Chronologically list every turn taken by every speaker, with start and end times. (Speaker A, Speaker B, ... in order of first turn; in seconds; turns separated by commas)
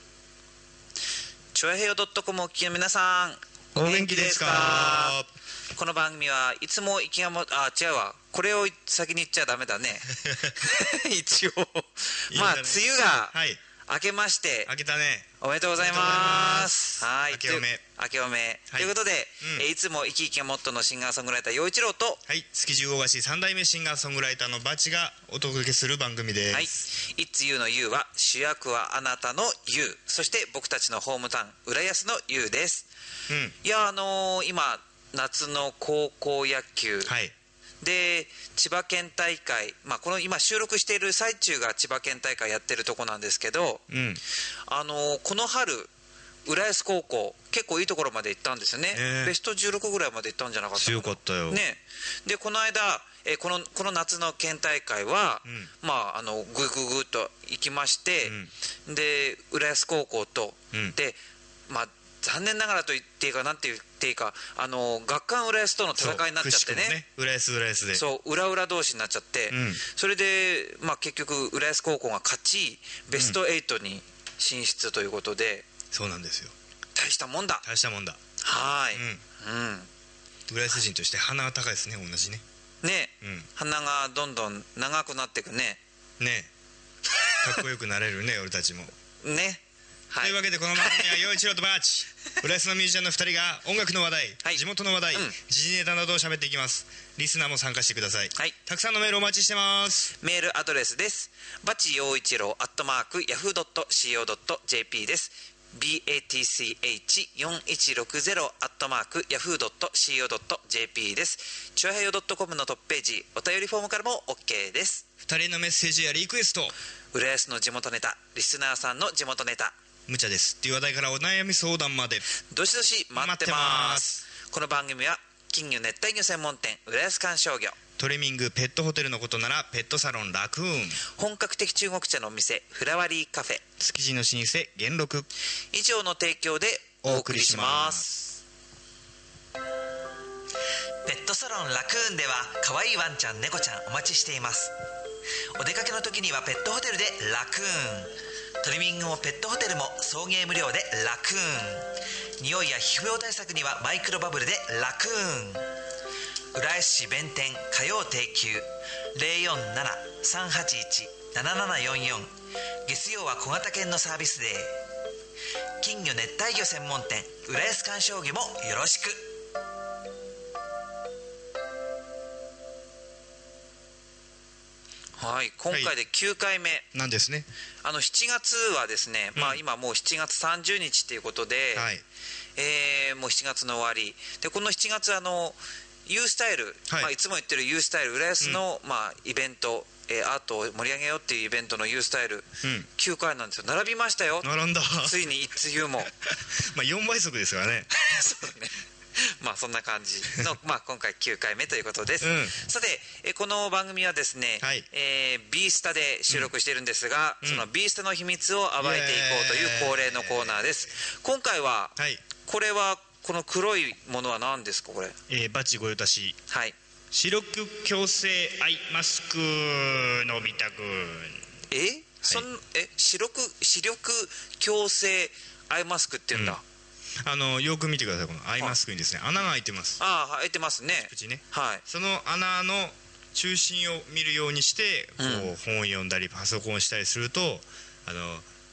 Speaker A: 1.5-5.2, Speaker B: 3.8-5.3, Speaker A: 5.8-13.3, Speaker B: 10.2-10.5, Speaker B: 12.3-13.6, Speaker A: 13.8-14.7, Speaker B: 14.7-16.8, Speaker A: 15.4-22.2, Speaker B: 17.3-17.8, Speaker B: 18.7-19.7, Speaker B: 22.3-26.7, Speaker A: 26.5-32.9, Speaker B: 33.3-33.6, Speaker A: 33.6-37.1, Speaker B: 37.1-37.3, Speaker A: 37.8-43.9, Speaker B: 43.9-44.2, Speaker A: 44.7-45.9, Speaker A: 46.5-58.4, Speaker B: 48.9-49.3, Speaker B: 50.8-51.6, Speaker B: 58.2-58.5, Speaker A: 58.9-61.2, Speaker A: 61.7-67.0, Speaker B: 66.0-68.0, Speaker A: 67.9-75.7, Speaker B: 69.5-69.8, Speaker B: 75.9-76.5, Speaker A: 77.0-77.6, Speaker B: 77.6-78.2, Speaker A: 78.4-79.9, Speaker B: 78.9-79.2, Speaker B: 80.5-82.4, Speaker A: 82.8-85.8, Speaker B: 83.2-83.5, Speaker B: 86.2-86.5, Speaker B: 87.4-88.9, Speaker A: 89.2-91.2, Speaker B: 90.2-100.1, Speaker A: 100.2-115.0, Speaker B: 115.2-116.7, Speaker A: 117.1-119.8, Speaker B: 120.1-122.2, Speaker A: 122.5-127.8, Speaker B: 123.2-124.1, Speaker B: 128.0-131.0, Speaker A: 131.1-133.6, Speaker B: 133.8-135.3, Speaker A: 135.7-138.3, Speaker B: 137.0-138.1, Speaker A: 141.1-144.7, Speaker A: 145.6-155.7, Speaker A: 156.5-162.3, Speaker A: 162.9-164.8, Speaker A: 165.8-169.3, Speaker A: 175.2-176.9, Speaker B: 176.9-177.5, Speaker A: 177.8-181.9, Speaker B: 179.4-179.6, Speaker B: 181.8-182.0, Speaker A: 182.6-194.5, Speaker B: 186.9-187.1, Speaker B: 194.4-195.2, Speaker A: 195.0-196.1, Speaker B: 196.2-197.9, Speaker A: 197.9-215.2, Speaker B: 202.2-202.6, Speaker B: 204.6-204.9, Speaker B: 207.4-207.7, Speaker B: 208.8-210.7, Speaker B: 212.0-212.2, Speaker B: 215.3-216.4, Speaker A: 216.5-216.8, Speaker B: 217.1-221.5, Speaker A: 221.7-226.6, Speaker B: 226.3-226.6, Speaker B: 227.2-230.0, Speaker A: 230.0-231.8, Speaker B: 230.9-238.5, Speaker A: 235.2-235.5